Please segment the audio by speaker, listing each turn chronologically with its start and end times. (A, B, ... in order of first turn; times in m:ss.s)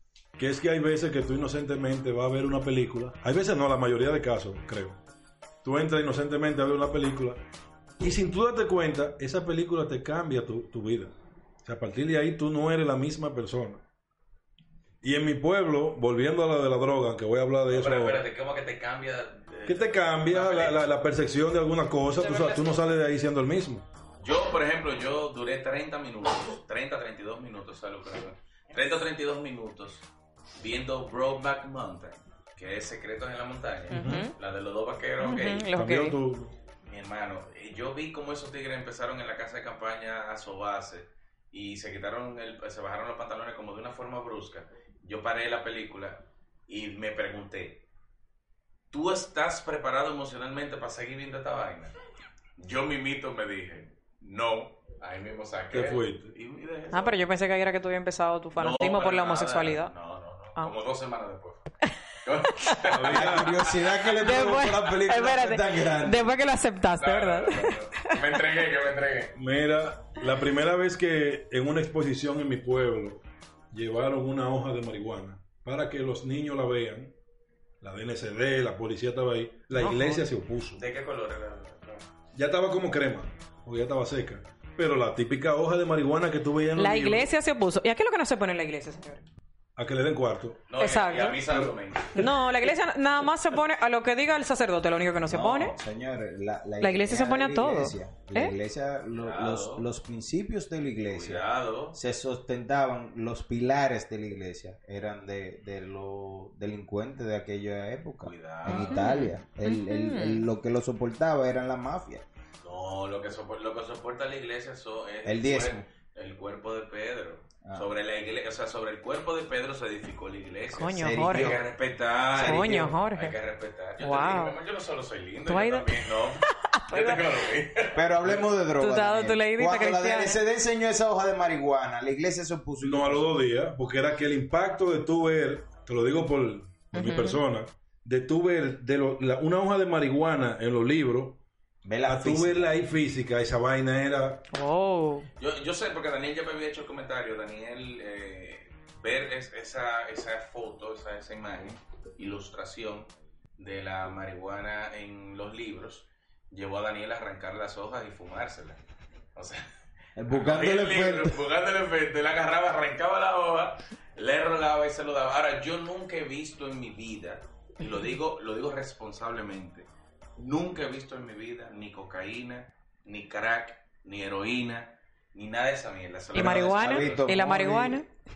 0:00.4-0:05.0 A
0:05.6-0:07.4 A
0:08.0-0:11.1 A
0:11.6-0:13.8 A
0:15.0-0:18.2 A
0:17.7-0:20.8 B
0:19.7-0:23.9 A
0:22.1-0:23.0 C
0:24.2-0:30.1 B
0:30.6-0:35.7 B
0:33.9-0:34.2 A
0:33.9-0:34.3 C
0:35.2-0:36.2 C
0:35.7-0:36.5 A
0:36.9-0:47.8 B
0:48.9-0:51.9 B
0:52.6-0:57.2 B
0:55.7-0:56.3 A
0:56.9-0:59.9 C
0:58.6-1:04.1 B
1:02.9-1:03.6 A
1:03.1-1:06.4 D
1:04.2-1:08.2 C
1:07.0-1:09.4 B
1:09.4-1:17.1 A
1:17.8-1:20.8 A
1:19.8-1:20.2 C
1:20.8-1:22.1 B
1:22.3-1:27.3 A
1:26.8-1:29.2 C
1:29.8-1:30.6 A
1:30.7-1:32.3 B
1:30.8-1:31.4 C
1:32.1-1:35.8 C
1:35.3-1:52.2 D
1:36.8-1:38.5 C
1:39.1-1:39.9 B
1:41.1-1:42.0 B
1:48.2-1:49.2 B
1:48.7-1:50.5 C
1:52.6-2:08.4 B
1:55.2-1:55.8 D
2:00.8-2:01.6 C
2:01.0-2:01.7 D
2:02.3-2:03.0 D
2:02.4-2:03.3 C
2:04.0-2:04.6 C
2:05.5-2:07.2 C
2:07.9-2:13.3 D
2:08.8-2:10.4 C
2:12.8-2:21.4 A
2:16.9-2:17.4 C
2:21.8-2:22.7 D
2:22.0-2:24.4 A
2:24.5-2:25.3 C
2:25.4-2:38.8 B
2:39.4-2:39.6 B
2:40.2-2:41.4 D
2:40.3-2:57.4 B
2:56.3-2:58.1 C
2:56.4-2:58.0 D